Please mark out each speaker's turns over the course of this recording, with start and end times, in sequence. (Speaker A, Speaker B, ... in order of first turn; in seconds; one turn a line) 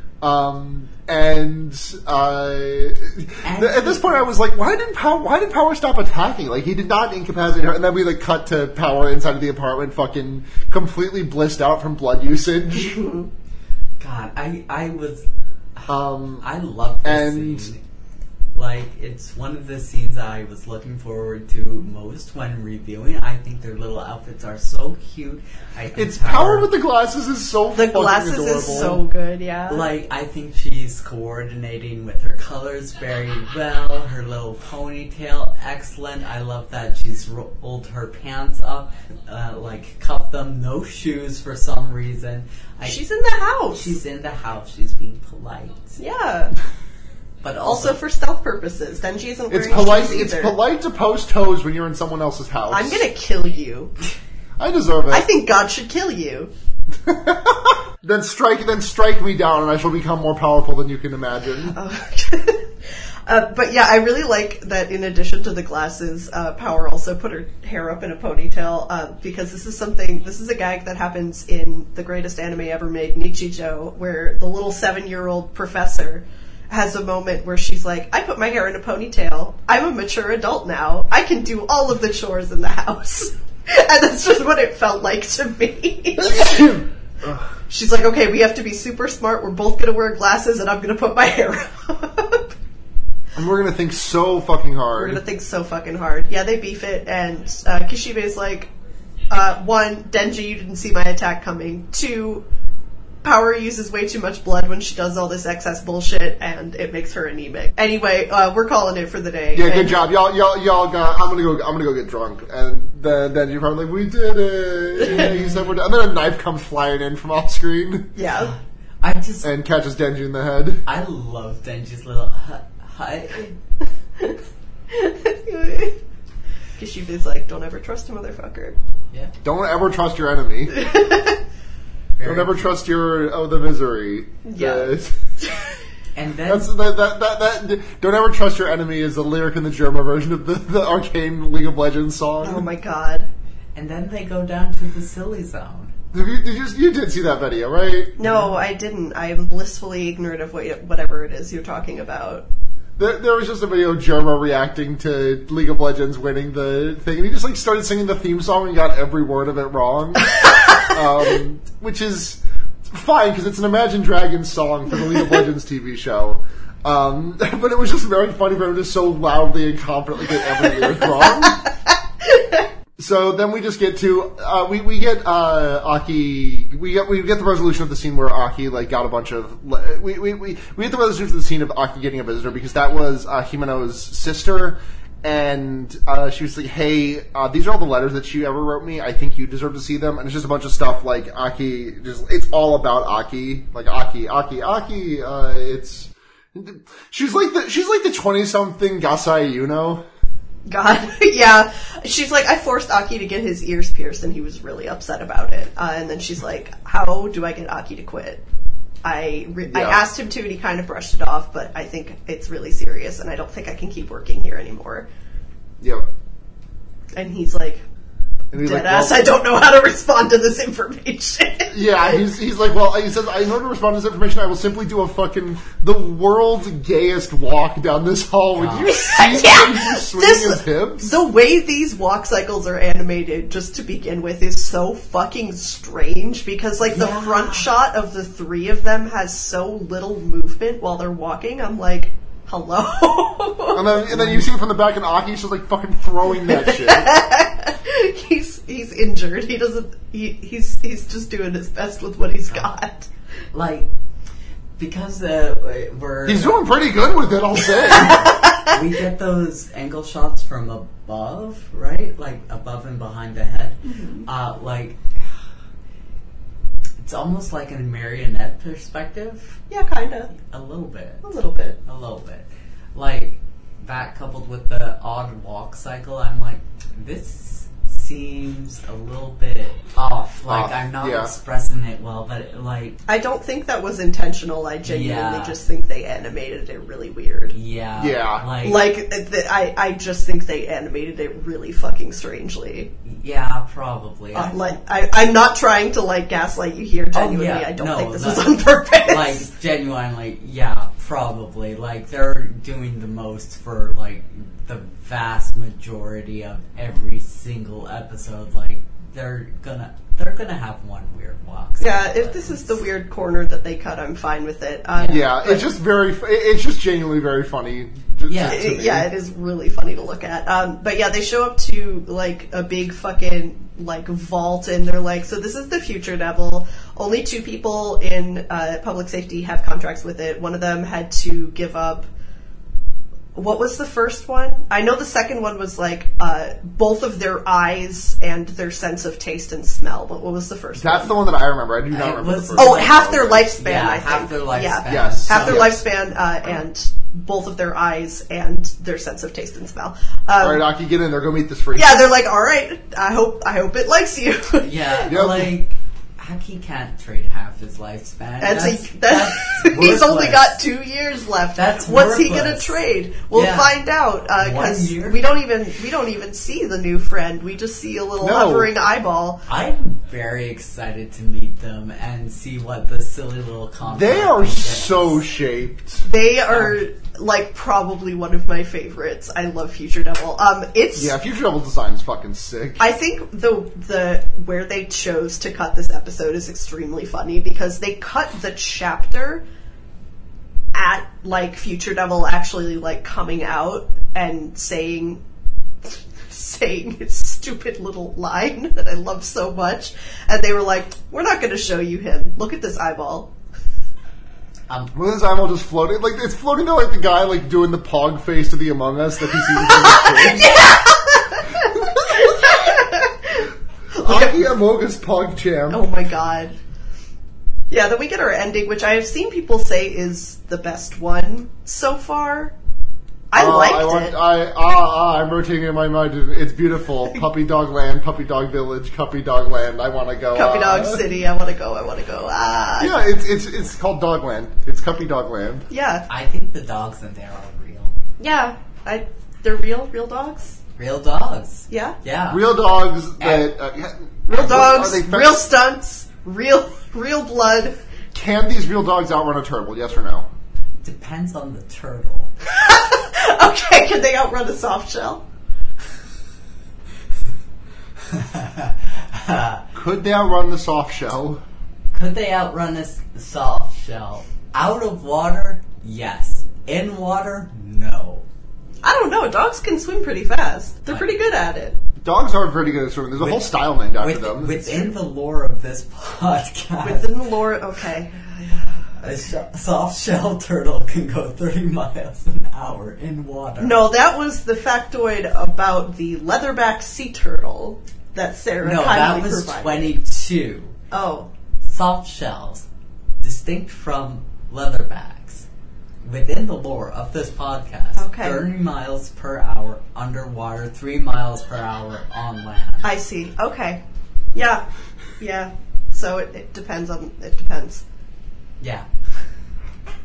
Speaker A: 0.2-13.0
Speaker B: 3.4-4.3
Speaker C: 12.8-13.3
Speaker B: 14.0-17.8
Speaker A: 15.9-16.4
Speaker A: 17.0-17.7
Speaker B: 18.5-26.7
Speaker A: 25.9-29.0
Speaker C: 27.7-29.9
Speaker B: 29.7-43.0
Speaker C: 42.8-44.0
Speaker B: 43.7-46.0
Speaker C: 46.0-46.5
Speaker B: 47.4-48.0
Speaker C: 47.6-50.5
Speaker A: 49.5-53.0
Speaker C: 52.7-53.9
Speaker A: 54.6-55.3
Speaker C: 55.1-56.5
Speaker A: 57.0-61.8
Speaker C: 61.7-62.7
Speaker C: 63.2-86.7
Speaker A: 86.2-87.5
Speaker C: 87.7-92.5
Speaker A: 93.3-95.2
Speaker C: 95.0-98.7
Speaker C: 99.3-102.4
Speaker C: 103.2-110.0
Speaker A: 109.5-118.1
Speaker B: 115.1-115.7
Speaker C: 118.2-118.5
Speaker B: 118.3-119.5
Speaker A: 119.4-120.8
Speaker B: 120.8-123.6
Speaker C: 124.9-126.0
Speaker C: 126.8-128.8
Speaker A: 129.4-130.8
Speaker C: 130.7-131.4
Speaker B: 132.2-132.7
Speaker A: 132.2-135.2
Speaker C: 134.4-134.9
Speaker B: 136.1-136.7
Speaker A: 136.4-142.7
Speaker C: 142.4-143.3
Speaker B: 143.7-145.9
Speaker A: 146.1-148.3
Speaker C: 148.2-152.4
Speaker A: 153.0-171.6
Speaker C: 160.4-160.8
Speaker C: 172.3-172.6
Speaker A: 173.0-200.0
Speaker C: 200.7-208.4
Speaker C: 209.0-215.1
Speaker A: 209.7-210.0
Speaker A: 215.8-216.1
Speaker C: 217.2-217.8
Speaker A: 218.5-219.3
Speaker C: 218.5-222.1
Speaker A: 221.7-231.2
Speaker B: 228.6-229.4
Speaker C: 228.8-244.2
Speaker B: 236.8-237.7
Speaker A: 243.7-247.1
Speaker C: 246.5-253.1
Speaker B: 253.5-253.9
Speaker B: 254.8-256.8
Speaker A: 256.2-258.3
Speaker B: 257.8-265.2
Speaker C: 257.9-258.8
Speaker C: 263.8-264.3
Speaker B: 267.0-269.6
Speaker C: 269.7-270.3
Speaker B: 270.3-271.2
Speaker C: 271.2-271.8
Speaker B: 271.8-283.0
Speaker A: 280.5-281.3
Speaker C: 283.1-287.5
Speaker B: 284.8-285.6
Speaker B: 287.5-288.9
Speaker A: 287.9-288.4
Speaker C: 288.6-292.9
Speaker B: 293.0-294.7
Speaker C: 294.3-299.4
Speaker B: 297.1-312.8
Speaker C: 311.8-315.7
Speaker A: 315.1-319.1
Speaker B: 318.2-318.8
Speaker C: 318.5-332.1
Speaker C: 333.3-341.1
Speaker A: 340.8-343.4
Speaker B: 341.9-345.8
Speaker C: 342.6-350.7
Speaker A: 344.9-345.8
Speaker A: 350.4-352.1
Speaker C: 351.7-355.2
Speaker B: 354.6-360.6
Speaker A: 355.1-355.5
Speaker C: 358.4-369.4
Speaker B: 361.6-363.8
Speaker B: 364.4-365.2
Speaker A: 368.2-368.7
Speaker B: 369.5-375.2
Speaker A: 373.8-376.1
Speaker C: 376.0-381.1
Speaker B: 376.5-376.8
Speaker A: 380.9-382.9
Speaker C: 382.8-389.4
Speaker C: 390.7-395.2
Speaker C: 395.8-403.3
Speaker A: 404.9-410.5
Speaker C: 409.5-414.4
Speaker A: 411.7-412.6
Speaker A: 414.0-415.9
Speaker C: 415.7-416.5
Speaker C: 417.7-422.5
Speaker C: 423.3-424.2
Speaker A: 423.3-431.0
Speaker C: 430.3-433.0
Speaker A: 432.8-435.7
Speaker C: 435.7-436.0
Speaker B: 436.1-437.9
Speaker C: 438.2-440.6
Speaker B: 440.8-442.5
Speaker C: 441.7-441.9
Speaker A: 442.3-445.4
Speaker B: 443.2-443.5
Speaker C: 444.3-447.8
Speaker A: 448.1-450.3
Speaker B: 450.8-452.3
Speaker C: 452.5-455.2
Speaker B: 458.0-459.7
Speaker A: 459.7-461.4
Speaker B: 461.9-468.2
Speaker C: 468.8-471.8
Speaker B: 470.9-471.1
Speaker A: 472.0-474.9
Speaker B: 473.2-477.2
Speaker C: 476.8-479.3
Speaker B: 479.0-483.9
Speaker C: 483.6-489.9
Speaker B: 488.6-490.7
Speaker C: 490.9-491.3
Speaker B: 491.6-492.6
Speaker B: 493.2-495.4
Speaker B: 496.0-502.9
Speaker C: 498.0-498.4
Speaker C: 502.8-503.8
Speaker C: 504.3-504.6
Speaker C: 505.2-507.8
Speaker B: 508.6-508.9